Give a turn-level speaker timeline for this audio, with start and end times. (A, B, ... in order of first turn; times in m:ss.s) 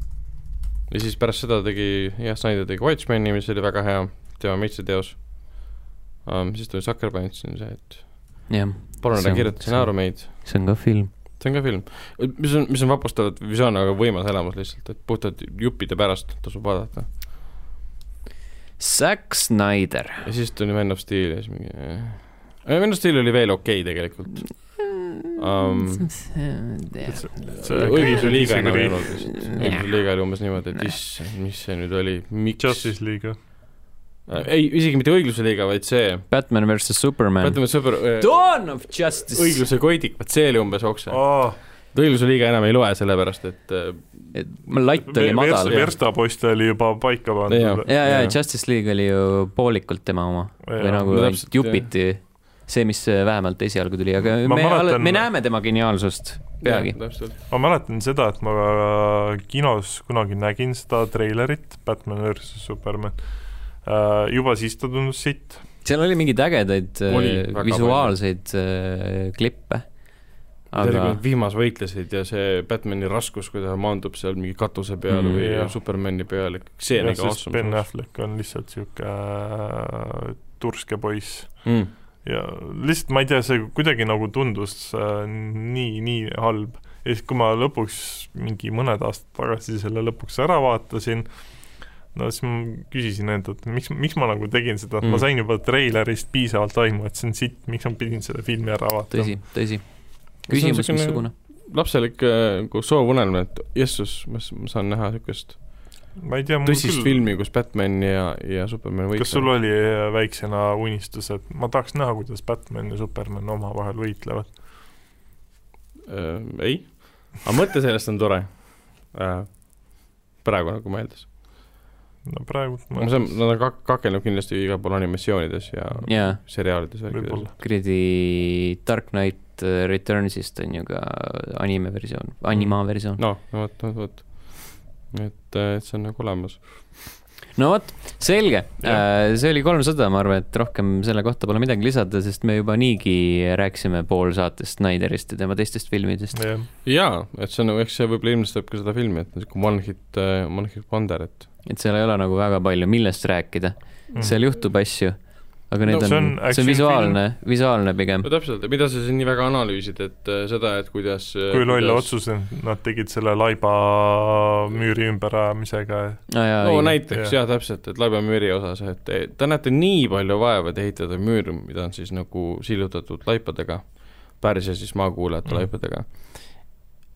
0:00.9-0:08.5 A
0:08.5-0:11.1 B
0:09.0-0:10.8 A
0:11.4-0:17.1 A
0:18.8-0:20.2 B
0:20.2-0:26.3 A
0:26.0-0:30.9 B
0:27.0-0:29.7 C
0:27.6-0:33.2 A
0:32.6-0:34.5 C
0:34.2-0:36.3 A
0:36.3-0:39.7 B
0:37.4-0:44.4 A
0:41.1-0:41.6 C
0:44.3-0:45.9 B
0:45.0-0:48.0 C
0:45.6-0:46.0 A
0:47.5-0:48.4 A
0:47.8-0:57.0 B
0:50.6-0:51.1 C
0:51.1-0:51.9 A
0:54.4-0:55.3 C
0:56.6-0:57.4 A
0:57.2-1:05.6 C
1:05.8-1:11.2 B
1:07.1-1:08.2 A
1:10.7-1:17.9 A
1:15.1-1:15.5 B
1:15.3-1:16.3 C
1:17.0-1:39.7 C
1:21.6-1:21.9 A
1:39.1-1:41.3 B
1:40.4-1:49.5 A
1:46.2-1:47.2 C
1:49.1-1:54.6 C
1:56.1-2:01.3 A
2:02.2-2:03.2 C
2:02.9-2:07.5 A
2:06.0-2:06.4 B
2:06.6-2:07.5 C
2:07.6-2:13.2 B
2:12.5-2:17.0 A
2:17.5-2:26.5 B
2:26.3-2:26.7 C
2:26.8-2:31.4 A
2:31.6-2:38.3 B
2:34.1-2:34.4 C
2:35.8-2:37.2 C
2:38.2-2:42.2 A
2:41.5-2:46.4 C
2:46.3-2:47.0 B
2:46.6-2:56.6 A
2:55.4-2:55.7 C